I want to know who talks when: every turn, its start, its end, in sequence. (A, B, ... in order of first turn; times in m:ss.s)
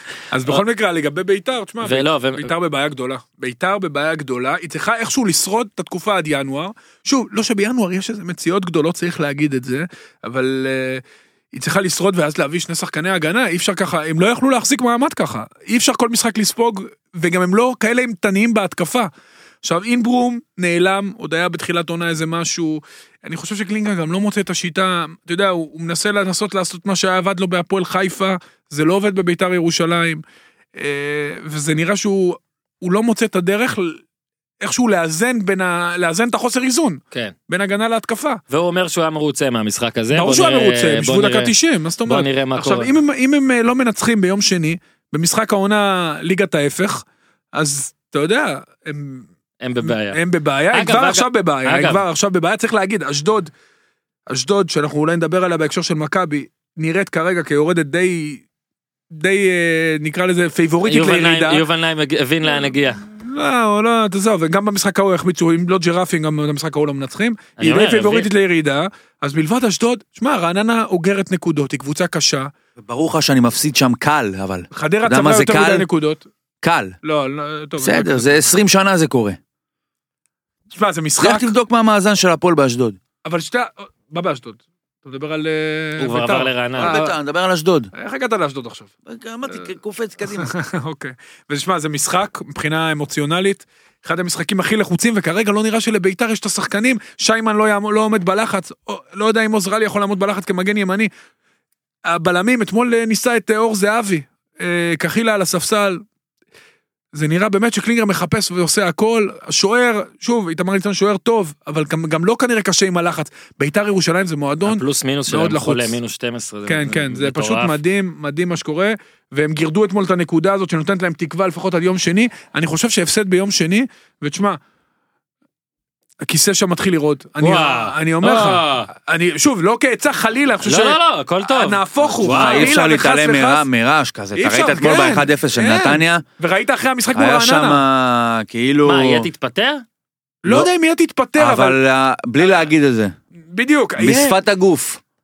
0:00.3-0:19.1 A
0:01.8-0:02.5 B
0:19.6-0:30.2 A
0:30.8-0:34.0 A
0:34.6-0:38.4 A
0:38.5-0:41.5 B
0:40.1-0:47.0 A
0:42.0-0:42.9 B
0:47.5-0:49.3 A
0:49.6-0:50.2 B
0:49.8-0:53.5 A
0:50.7-0:52.0 B
0:54.3-0:58.4 A
0:59.1-1:01.6 A
1:00.9-1:03.0 B
1:02.5-1:12.5 A
1:07.6-1:08.3 B
1:12.8-1:15.9 C
1:14.7-1:16.3 A
1:16.6-1:16.9 C
1:17.0-1:18.5 A
1:17.8-1:19.4 C
1:20.7-1:21.5 A
1:21.2-1:23.0 C
1:23.2-1:27.2 A
1:26.0-1:26.9 B
1:26.8-1:27.9 C
1:27.9-1:28.9 A
1:29.0-1:30.5 C
1:30.3-1:41.1 A
1:42.1-1:46.0 A
1:47.1-1:56.0 A
1:54.6-1:57.8 B
1:56.7-2:04.6 A
2:06.2-2:13.7 A
2:07.4-2:08.9 B
2:10.6-2:12.7 B
2:12.2-2:16.2 C
2:14.4-2:17.8 A
2:17.1-2:19.3 C
2:18.8-2:19.8 B
2:20.4-2:21.8 A
2:21.4-2:23.1 C
2:22.4-2:22.7 A
2:23.5-2:24.4 A
2:24.0-2:25.0 C